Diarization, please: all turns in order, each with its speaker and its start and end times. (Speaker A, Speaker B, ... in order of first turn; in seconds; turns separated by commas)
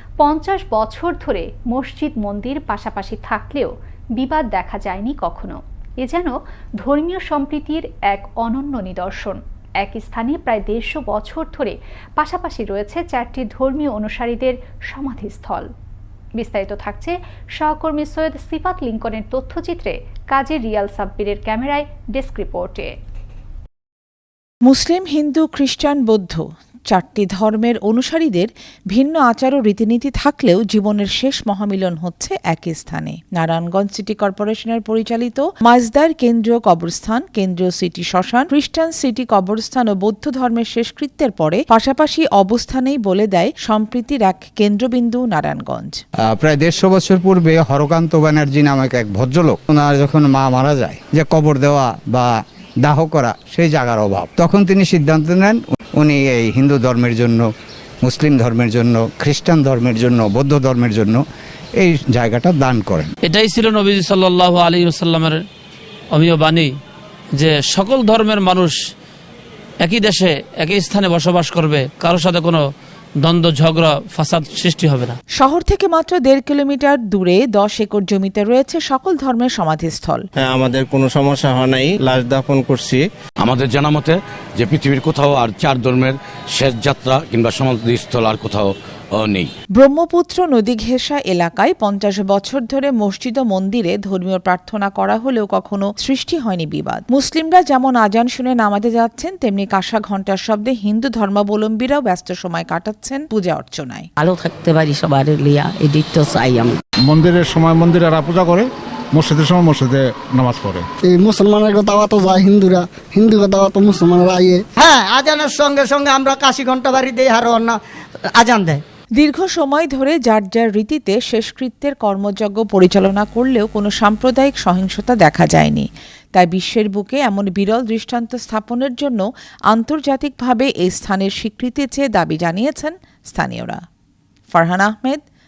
Speaker A: 0.2-15.7, Speaker A: 16.4-22.9, Speaker B: 24.6-46.0, Speaker C: 46.3-57.5, Speaker C: 58.0-61.2, Speaker C: 61.8-63.1, Speaker D: 63.3-65.4, Speaker D: 66.1-66.7, Speaker D: 67.3-68.8, Speaker D: 69.8-72.6, Speaker D: 73.2-75.2, Speaker B: 75.3-80.3, Speaker E: 80.4-83.0, Speaker F: 83.4-89.5, Speaker B: 89.8-104.1, Speaker G: 104.2-106.8, Speaker H: 107.1-110.9, Speaker I: 111.0-114.6, Speaker J: 114.8-118.8, Speaker B: 119.2-133.8, Speaker B: 134.5-135.2